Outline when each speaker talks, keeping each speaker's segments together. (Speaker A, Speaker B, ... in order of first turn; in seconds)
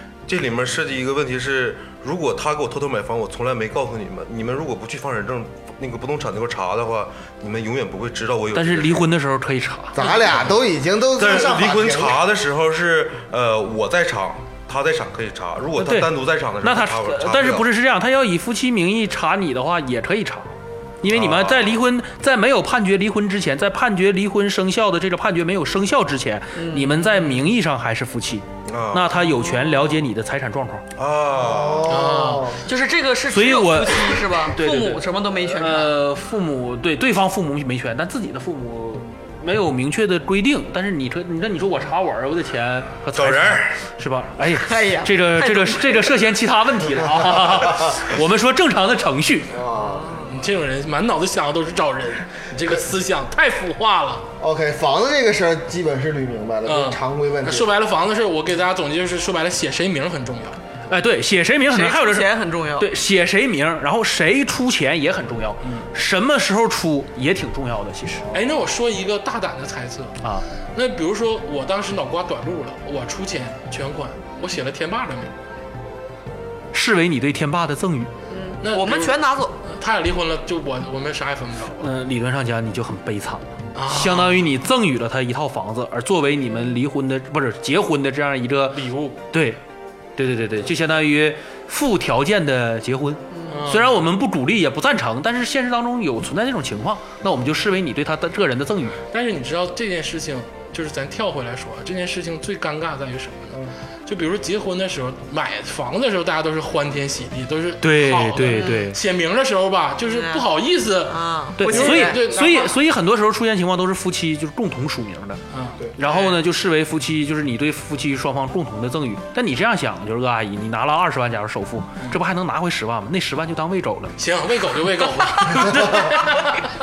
Speaker A: 0.2-9.1, 11.2-17.7, 21.1-21.8, 28.7-29.3, 31.0-31.9, 43.1-43.8
Speaker B: 8.5-10.0, 15.8-30.8, 33.3-49.5, 60.9-68.3, 76.7-78.1, 81.8-89.6, 90.2-99.0, 107.8-109.0, 111.6-115.4, 116.0-124.1
Speaker C: 9.9-12.2, 31.4-32.6, 47.0-47.8, 49.5-50.2, 54.4-57.7, 125.7-126.0
Speaker D: 26.5-27.4, 32.6-36.0, 44.5-46.1, 49.8-50.3, 61.7-62.9, 78.3-79.6, 108.5-108.8, 110.0-110.5, 111.0-112.2
Speaker E: 31.9-32.5, 50.2-54.3, 56.6-60.6, 68.3-70.2, 70.7-75.3, 78.6-81.9, 83.8-84.5, 88.7-89.2, 93.5-94.0, 99.1-112.8, 115.5-116.4, 124.2-126.6